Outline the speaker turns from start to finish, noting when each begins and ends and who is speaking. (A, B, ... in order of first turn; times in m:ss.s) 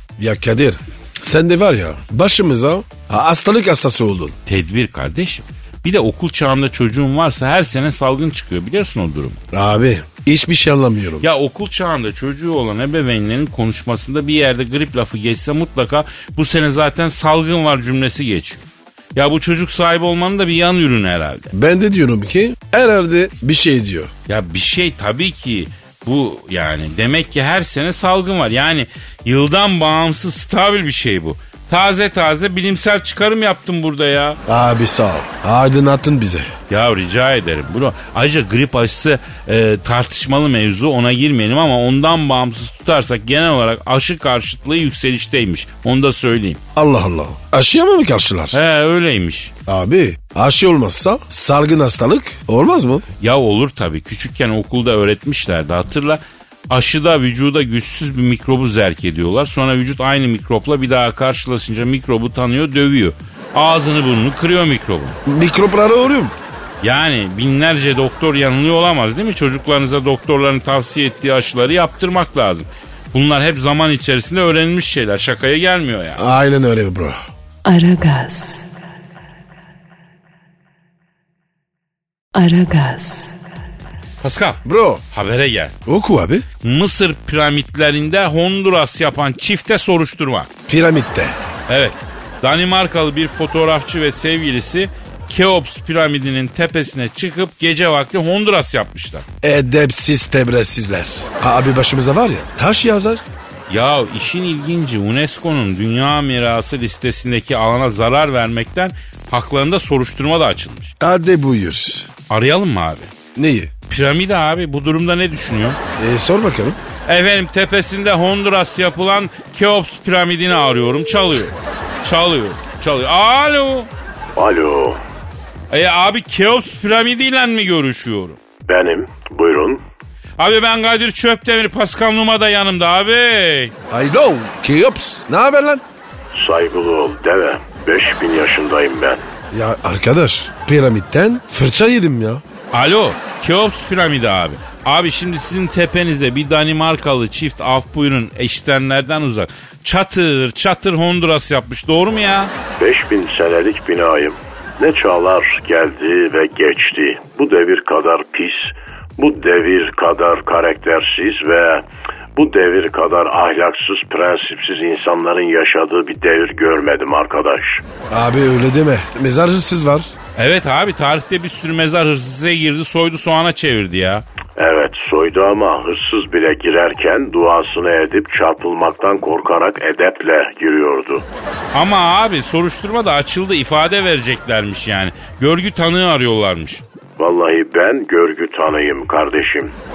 0:00.2-0:04.4 A
0:04.5-0:09.4 B
0:09.5-0:11.2 A
0:11.2-0:21.5 B
0:21.5-0:24.1 A
0:24.3-0:34.4 B
0:34.5-0:36.5 A
0:36.7-0:46.6 B
0:46.8-0:48.6 A
0:48.5-0:49.5 B
0:49.7-0:53.0 A
0:53.2-1:05.2 B
1:05.3-1:06.4 A
1:06.8-1:16.2 B
1:16.2-1:17.2 A
1:17.6-1:18.7 C
1:22.3-1:23.4 C
1:24.2-1:25.8 B
1:24.6-1:25.0 A
1:25.9-1:26.5 A
1:26.6-1:30.5 B
1:30.7-1:31.4 A
1:31.7-1:39.3 B
1:39.4-1:43.2 A
1:43.7-1:50.9 B
1:51.0-1:52.1 A
1:52.3-1:53.1 B
1:53.4-1:53.7 A
1:53.9-1:55.8 B
1:56.0-1:56.8 A
1:57.1-2:03.9 B
2:04.4-2:05.0 D
2:05.7-2:08.4 B
2:08.7-2:09.8 D
2:10.4-2:13.8 B
2:13.9-2:15.8 A
2:16.3-2:19.2 D
2:19.5-2:22.4 A
2:22.7-2:32.5 B
2:32.8-2:47.8 D
2:48.1-2:50.2 A
2:50.4-2:54.2 B
2:54.6-3:01.3 D
3:01.7-3:06.8 B
3:07.2-3:09.8 D